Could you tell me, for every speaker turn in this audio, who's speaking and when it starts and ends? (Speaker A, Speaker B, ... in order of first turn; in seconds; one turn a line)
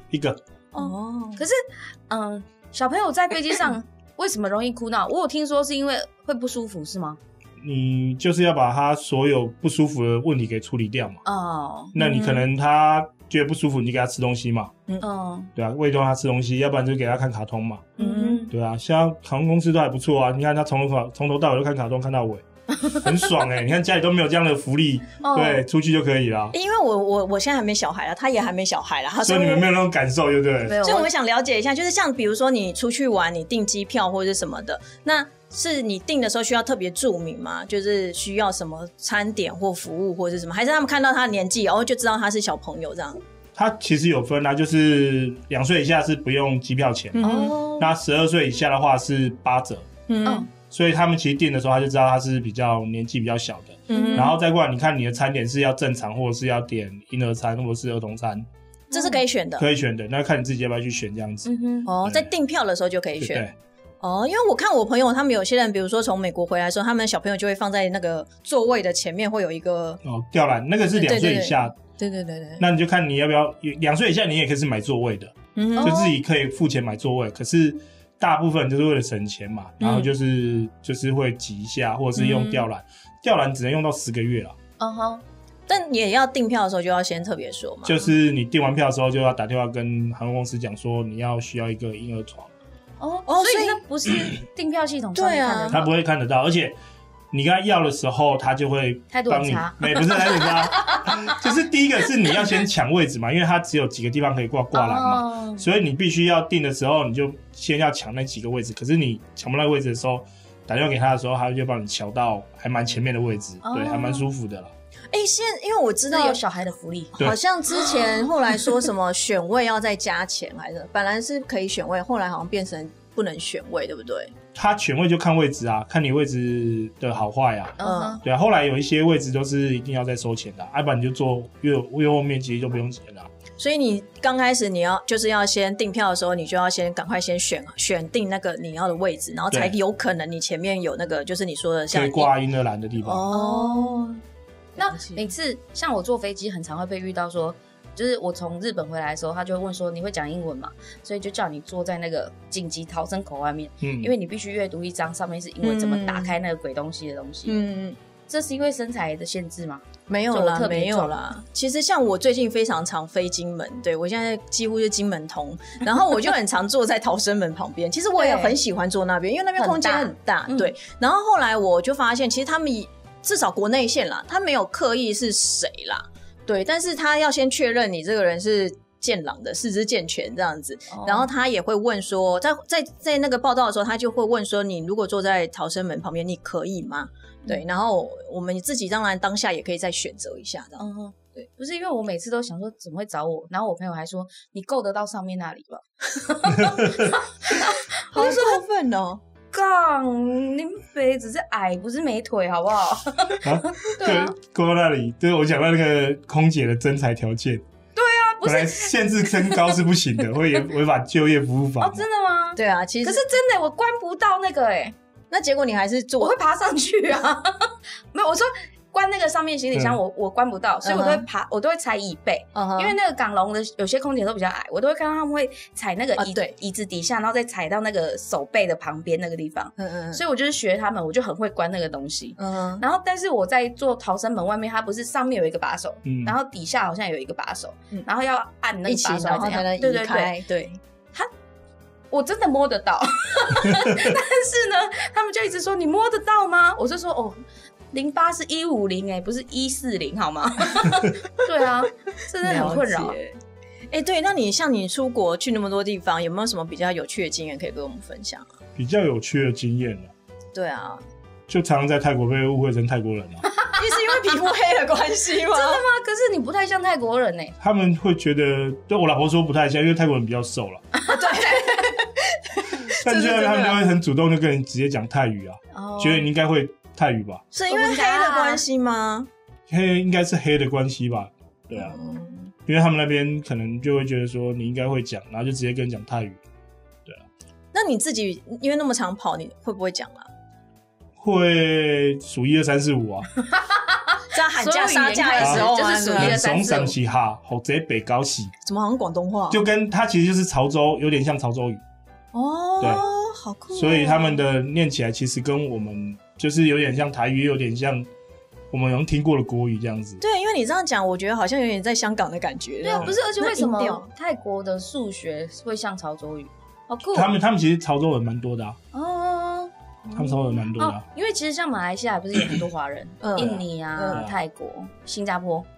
Speaker A: 0.1-0.4
Speaker B: 0.7-1.6
Speaker C: 0.8-1.4
Speaker B: 2.1-7.2
Speaker A: 7.6-11.2
Speaker B: 11.2-11.9
Speaker A: 11.9-14.7
Speaker C: 12.0-12.5
Speaker B: 15.0-15.5
Speaker A: 15.6-17.9
Speaker C: 18.0-18.4
Speaker B: 18.0-18.5
Speaker A: 18.5-26.5
Speaker B: 22.8-23.1
Speaker B: 25.2-25.6
Speaker C: 26.5-29.7
Speaker A: 29.2-30.8
Speaker B: 30.6-31.1
Speaker C: 30.8-43.2
Speaker A: 43.5-49.9
Speaker C: 47.2-47.6
Speaker B: 47.2-47.9
Speaker C: 50.1-50.5
Speaker A: 50.7-58.5
Speaker C: 53.9-54.4
Speaker B: 53.9-54.3
Speaker B: 58.9-59.2
Speaker C: 58.9-59.7
Speaker A: 59.6-61.5
Speaker B: 61.5-61.9
Speaker C: 61.9-63.5
Speaker A: 62.0-62.3
Speaker A: 63.2-63.5
Speaker C: 64.0-70.0
Speaker A: 70.0-71.8
Speaker C: 70.9-72.7
Speaker A: 72.6-84.5
Speaker C: 75.5-75.9
Speaker B: 75.8-76.2
Speaker C: 79.8-80.1
Speaker B: 82.1-82.6
Speaker B: 84.8-85.2
Speaker C: 85.7-88.1
Speaker A: 87.8-92.5
Speaker B: 93.0-95.9
Speaker C: 93.3-93.8
Speaker C: 95.1-95.8
Speaker A: 95.7-96.8
Speaker A: 97.3-114.7
Speaker B: 99.1-101.4
Speaker B: 104.7-105.6
Speaker B: 113.6-114.2
Speaker C: 115.1-116.4
Speaker B: 116.1-117.2
Speaker C: 117.2-124.3
Speaker B: 117.8-118.1
Speaker A: 124.5-133.3
Speaker B: 127.8-128.2
Speaker C: 127.8-128.2
Speaker C: 133.6-142.3
Speaker A: 141.9-143.3
Speaker C: 143.0-144.2
Speaker B: 143.3-144.2
Speaker C: 144.8-145.2
Speaker B: 144.8-157.6
Speaker A: 153.8-154.1
Speaker C: 155.6-156.3
Speaker C: 157.4-158.0
Speaker B: 158.3-161.1
Speaker C: 160.1-190.8
Speaker B: 168.2-168.6
Speaker B: 169.6-170.7
Speaker B: 180.9-181.3
Speaker B: 190.8-198.6
Speaker A: 196.6-197.1
Speaker C: 198.1-199.2
Speaker B: 199.5-204.3
Speaker A: 203.4-207.6
Speaker B: 207.9-209.8
Speaker A: 208.4-212.1
Speaker B: 211.8-214.9
Speaker C: 212.6-213.2
Speaker C: 215.3-216.3
Speaker B: 216.2-240.3
Speaker C: 220.8-221.2
Speaker C: 222.5-222.9
Speaker C: 226.2-226.6
Speaker C: 229.8-230.2
Speaker C: 232.4-232.8
Speaker A: 236.0-236.3
Speaker C: 238.8-240.8
Speaker B: 242.1-247.4
Speaker B: 247.9-253.2
Speaker C: 252.4-253.4
Speaker C: 253.9-258.5
Speaker A: 258.8-260.1
Speaker C: 260.5-261.0
Speaker A: 261.5-263.4
Speaker B: 263.5-263.9
Speaker C: 263.8-265.8
Speaker B: 265.5-267.5
Speaker A: 267.6-270.8
Speaker B: 270.9-271.8
Speaker C: 271.1-273.8
Speaker A: 273.0-277.4
Speaker B: 275.7-276.3
Speaker C: 277.5-279.3
Speaker B: 277.7-278.6
Speaker A: 279.7-282.0
Speaker C: 281.7-282.5
Speaker A: 282.6-286.4
Speaker C: 287.7-290.3
Speaker A: 291.2-293.3
Speaker B: 293.4-296.9
Speaker C: 294.3-296.4
Speaker A: 295.4-298.5
Speaker C: 298.6-299.6
Speaker A: 299.5-301.8
Speaker C: 302.3-304.4
Speaker A: 302.8-303.0
Speaker A: 303.7-308.1
Speaker A: 308.7-310.2
Speaker C: 310.2-314.1
Speaker B: 312.8-317.3
Speaker A: 317.1-318.8
Speaker B: 318.9-325.7
Speaker A: 320.1-321.0
Speaker C: 323.2-324.2
Speaker A: 324.1-324.4